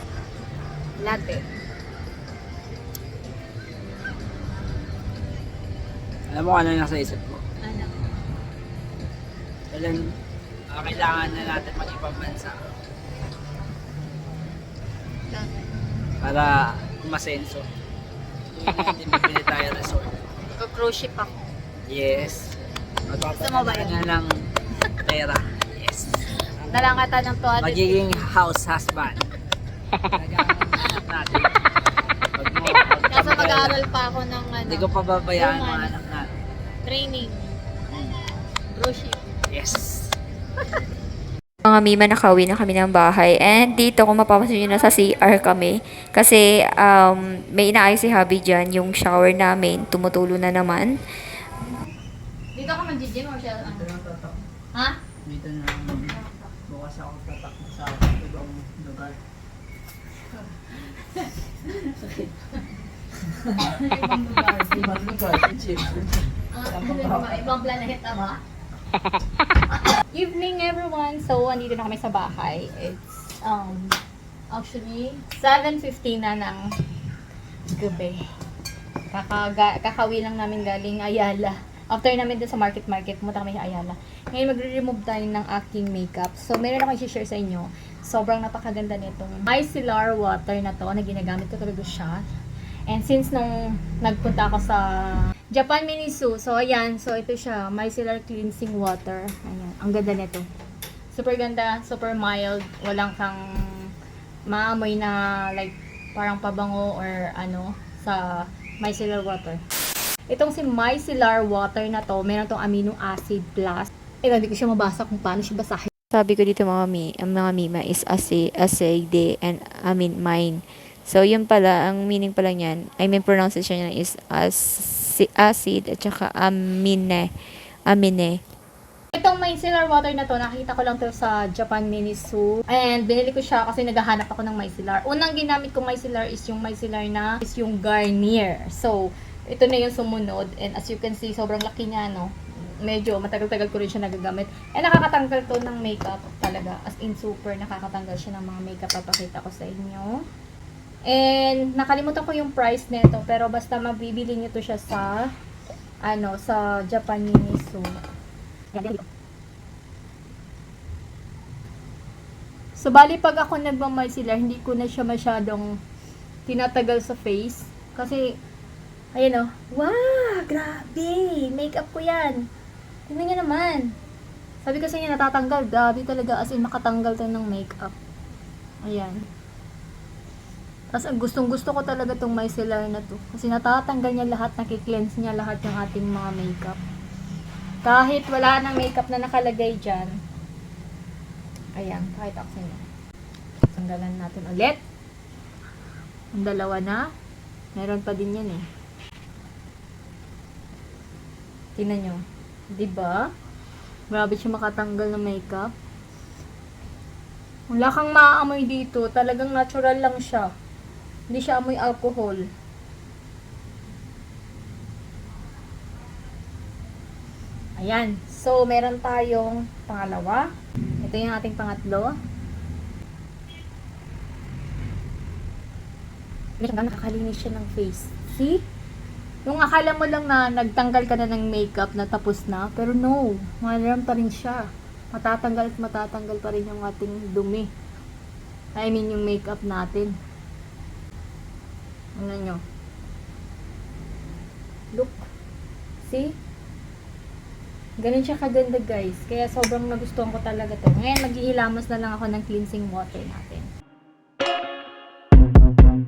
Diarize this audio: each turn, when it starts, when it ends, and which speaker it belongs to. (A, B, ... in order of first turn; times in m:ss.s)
0:01.0-0:01.4 A
0:06.3-0:07.4 B
0:07.6-0:08.0 A
0:09.7-0:10.0 B
0:10.7-0:12.6 B
0:16.2-0:17.7 B
0:18.5-0:20.1 B
0:20.5-0:21.3 A
0:21.9-0:22.6 B
0:23.1-0:24.3 B
0:23.4-0:24.0 A
0:25.0-0:26.9 B
0:26.7-0:28.2 A
0:27.6-0:29.2 B
0:30.1-0:31.5 B
0:32.3-0:33.8 B
0:33.1-0:35.9 A
0:34.7-0:36.3 B
0:36.8-0:37.5 A
0:38.7-0:39.2 A
0:39.5-0:40.1 B
0:41.6-0:51.0 C
0:52.5-0:53.9 A
0:53.6-0:54.3 B
0:55.2-0:59.2 B
1:00.9-1:02.3 A
1:03.6-1:05.1 A
1:05.0-1:06.2 B
1:06.5-1:08.4 A
1:10.1-1:14.0 A
1:14.5-1:16.7 A
1:17.7-1:18.2 A
1:19.1-1:32.2 A
1:32.9-1:40.4 A
1:41.1-1:43.9 A
1:44.5-1:49.6 A
1:50.3-1:55.9 A
1:56.1-2:08.4 C
2:09.1-2:22.3 A
2:22.8-2:30.2 A
2:31.1-2:35.3 A
2:36.0-2:38.0 A
2:38.7-2:39.0 A
2:42.8-2:45.7 A
2:46.5-2:48.2 A
2:49.1-2:52.4 A
2:53.1-2:53.9 A
2:54.6-2:57.9 A
2:58.8-2:59.2 A
3:00.9-3:06.8 A
3:07.8-3:10.1 A
3:11.8-3:12.8 A
3:13.7-3:14.8 A
3:16.3-3:17.0 A
3:17.7-3:18.6 A
3:21.8-3:23.2 A
3:24.1-3:25.7 A
3:27.7-3:30.5 A
3:31.3-3:32.4 A
3:37.8-3:40.5 A
3:41.0-3:42.1 A
3:46.6-3:48.6 A
3:49.4-3:57.7 A
3:58.7-4:00.1 A
4:02.2-4:02.6 A
4:04.9-4:05.2 A
4:06.0-4:06.4 A
4:08.0-4:13.7 A